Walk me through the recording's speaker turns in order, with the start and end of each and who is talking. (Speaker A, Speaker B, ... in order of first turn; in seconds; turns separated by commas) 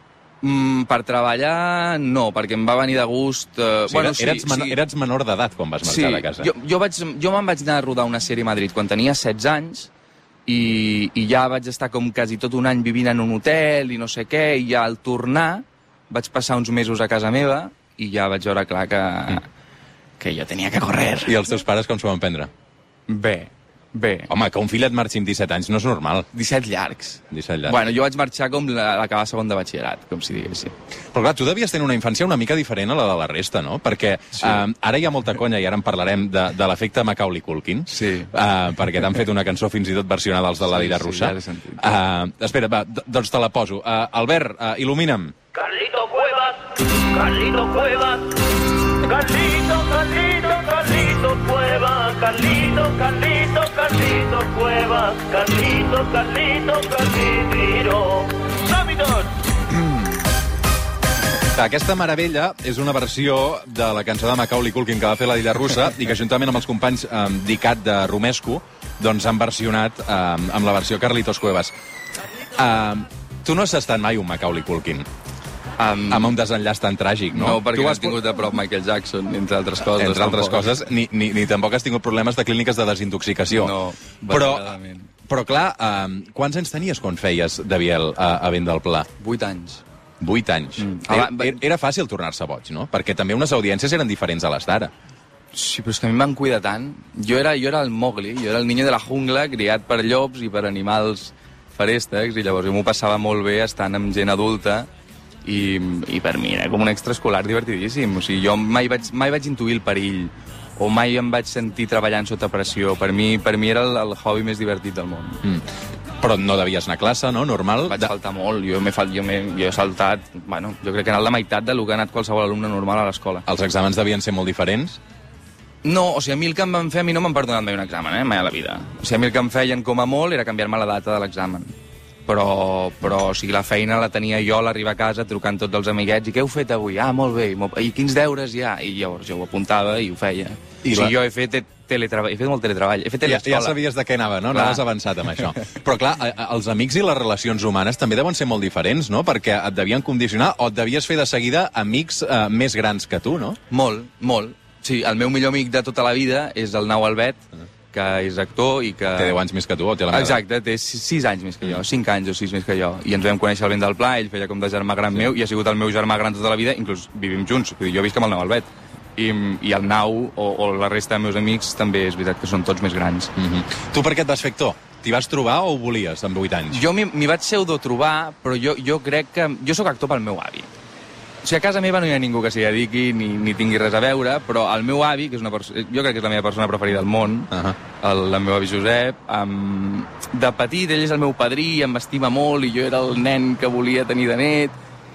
Speaker A: 0.4-4.8, Speaker B: 3.9-6.5, Speaker A: 5.8-9.9, Speaker A: 10.4-19.5, Speaker A: 20.2-21.4, Speaker B: 21.2-22.5, Speaker A: 23.1-24.3, Speaker B: 24.3-26.3, Speaker A: 26.3-30.7, Speaker B: 27.3-27.8, Speaker B: 31.1-45.3, Speaker A: 37.9-38.3, Speaker A: 40.7-41.9, Speaker C: 45.5-59.4, Speaker B: 61.5-71.7, Speaker B: 72.5-75.1, Speaker A: 75.8-76.3, Speaker B: 76.1-78.2, Speaker A: 77.3-80.7, Speaker B: 79.8-83.8, Speaker A: 83.5-85.1, Speaker B: 84.3-84.8, Speaker B: 85.3-89.1, Speaker A: 89.2-89.8, Speaker B: 90.2-94.9, Speaker A: 90.8-91.6, Speaker A: 95.5-104.9, Speaker A: 105.4-115.4, Speaker B: 116.2-118.1, Speaker A: 117.8-123.4, Speaker B: 123.5-125.0, Speaker A: 125.8-131.7, Speaker A: 132.2-143.8, Speaker B: 140.8-141.1, Speaker B: 143.2-153.6, Speaker A: 144.5-144.8, Speaker A: 153.7-157.4, Speaker A: 157.9-159.4, Speaker B: 159.2-160.4, Speaker A: 160.1-173.3, Speaker B: 173.3-176.8, Speaker A: 176.7-180.7, Speaker A: 181.4-194.7, Speaker B: 187.5-187.8